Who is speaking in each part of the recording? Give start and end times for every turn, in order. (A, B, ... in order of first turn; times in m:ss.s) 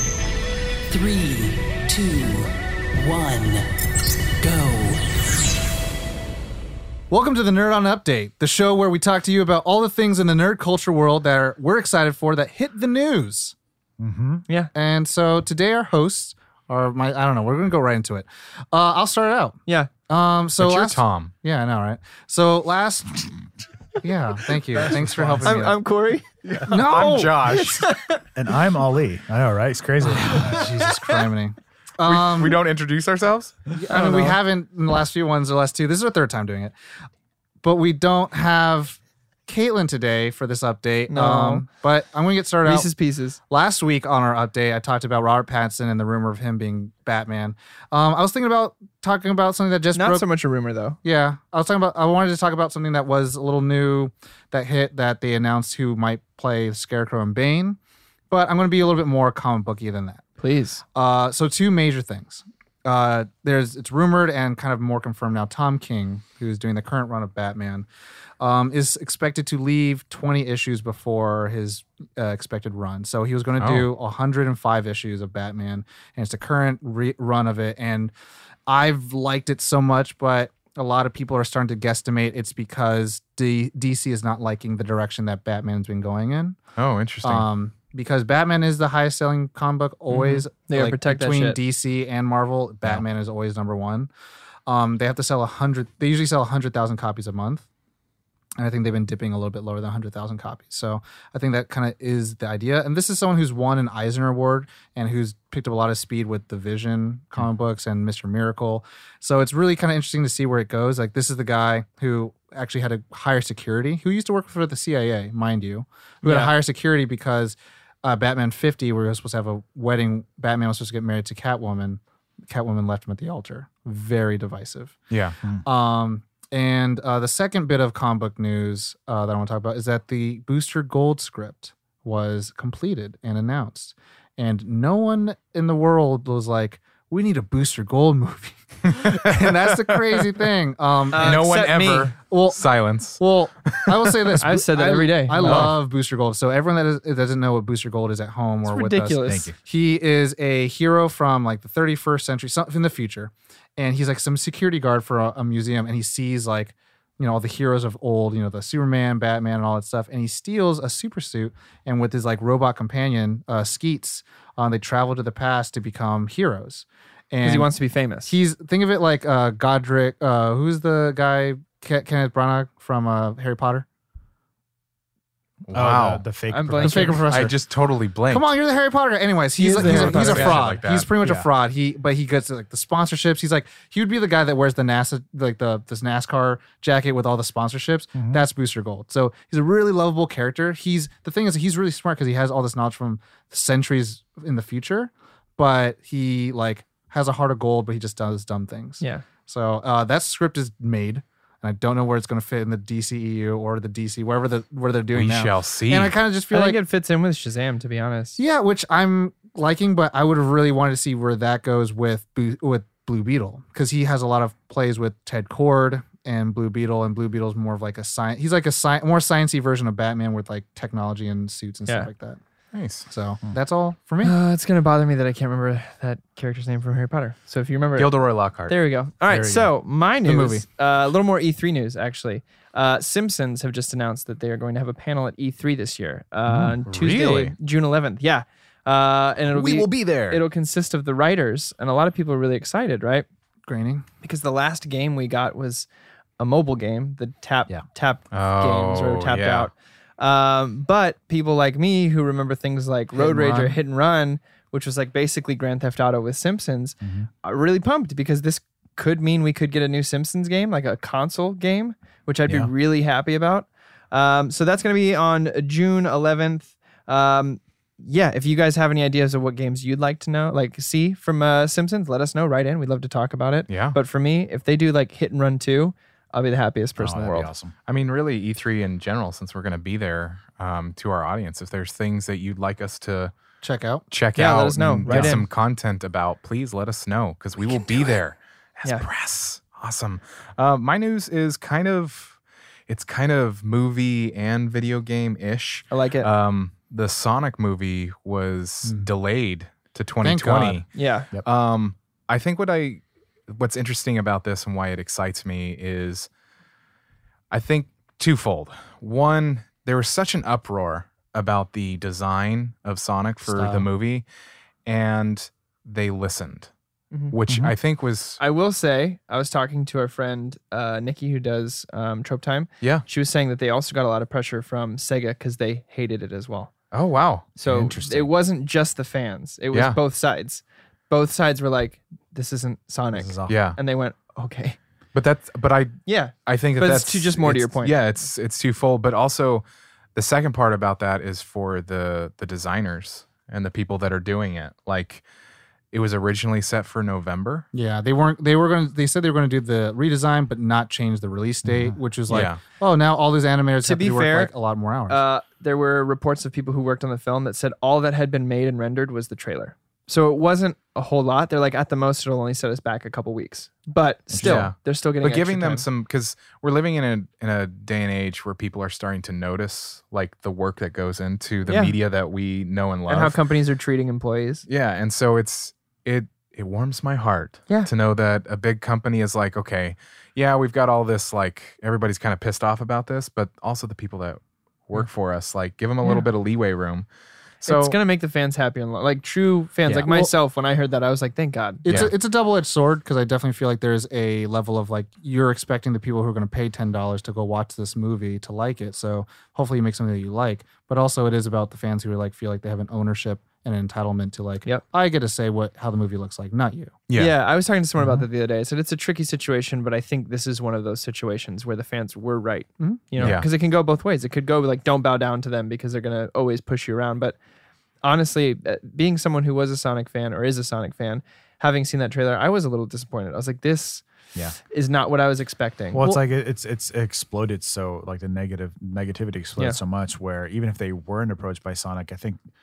0:00.9-0:03.6 A
0:04.4-0:05.0 A
0:07.1-0:13.5 B
0:14.0-0:14.4 C
0:14.7-0:23.4 B
0:20.6-0:21.3 D
0:24.0-0:25.8 B
0:24.8-0:25.6 C
0:25.4-0:26.7 E
0:26.5-0:27.8 D
0:26.6-0:27.4 B
0:27.4-0:28.2 E
0:28.3-0:30.7 C
0:30.1-0:32.6 B
0:30.3-0:30.8 E
0:32.0-0:33.6 D
0:33.7-0:36.7 B
0:33.9-0:34.4 E
0:37.6-0:42.9 B
0:41.1-0:41.6 E
0:42.6-0:43.4 E
0:43.5-0:50.2 B
0:49.9-0:51.0 E
0:51.0-0:57.8 B
0:58.3-1:00.2 B
1:00.4-1:00.8 E
1:00.9-1:07.8 B
1:08.4-1:18.1 B
1:13.6-1:13.9 D
1:18.7-1:26.6 B
1:26.8-1:27.4 D
1:27.2-1:34.1 B
1:30.1-1:31.6 E
1:34.7-1:37.6 B
1:38.6-2:04.9 B
1:56.2-1:56.5 E
2:05.1-2:05.4 D
2:05.6-2:21.4 B
2:19.0-2:20.2 D
2:21.1-2:22.1 E
2:21.1-2:24.4 D
2:22.3-2:22.6 B
2:23.2-2:47.7 B
2:24.4-2:25.8 E
2:25.4-2:25.7 D
2:28.6-2:29.5 E
2:29.2-2:29.5 C
2:47.4-2:48.3 E
2:48.2-2:53.8 B
2:55.7-2:56.2 D
2:55.7-2:57.3 C
2:56.5-2:57.2 E
2:56.8-2:58.5 D
2:56.8-2:57.6 B
2:58.3-3:26.8 B
2:59.6-3:00.6 E
2:59.8-3:01.1 D
2:59.8-3:00.6 C
3:01.2-3:01.5 C
3:08.1-3:08.4 C
3:19.0-3:19.2 E
3:25.1-3:26.1 D
3:26.5-3:28.4 E
3:28.4-3:42.4 B
3:42.7-3:43.0 D
3:43.1-3:44.3 B
3:44.2-3:48.2 E
3:48.0-3:48.8 D
3:48.7-4:03.2 E
3:49.3-3:49.7 C
3:50.2-3:50.6 B
3:56.4-3:56.8 C
3:56.8-3:57.5 D
3:59.5-4:00.4 D
4:03.7-4:04.0 B
4:04.2-4:05.9 E
4:06.4-4:37.5 E
4:08.3-4:09.7 D
4:13.1-4:13.8 B
4:17.0-4:17.3 C
4:33.7-4:34.0 D
4:37.0-4:37.7 C
4:37.8-4:43.3 D
4:43.6-4:44.0 B
4:44.1-4:52.4 D
4:44.3-4:45.4 E
4:45.1-4:45.4 C
4:52.9-5:06.3 D
4:55.9-4:56.3 E
5:00.2-5:00.8 B
5:00.9-5:01.3 E
5:07.5-5:14.2 D
5:13.4-5:13.9 B
5:14.8-5:16.7 D
5:17.3-5:18.4 D
5:17.5-5:17.7 C
5:18.4-5:26.7 E
5:26.9-5:27.5 D
5:27.6-5:34.8 E
5:27.6-5:28.3 C
5:29.7-5:30.0 D
5:33.1-5:33.6 C
5:33.5-5:33.8 D
5:35.1-5:45.2 D
5:36.0-5:37.9 E
5:45.9-5:47.7 D
5:47.7-5:55.2 B
5:51.6-5:52.0 C
5:52.3-5:52.6 D
5:53.8-5:54.5 E
5:55.1-6:05.8 E
6:04.3-6:04.7 C
6:04.4-6:13.4 D
6:11.6-6:12.0 E
6:13.1-6:14.6 E
6:14.7-6:27.0 D
6:27.6-6:28.0 D
6:27.7-6:31.9 E
6:30.1-6:30.3 B
6:31.8-6:46.9 B
6:31.9-6:32.1 D
6:47.1-6:47.3 D
6:47.1-6:57.4 E
6:52.8-6:53.1 B
6:53.2-6:53.5 D
6:58.0-7:04.0 E
7:04.7-7:06.0 E
7:05.9-7:12.4 C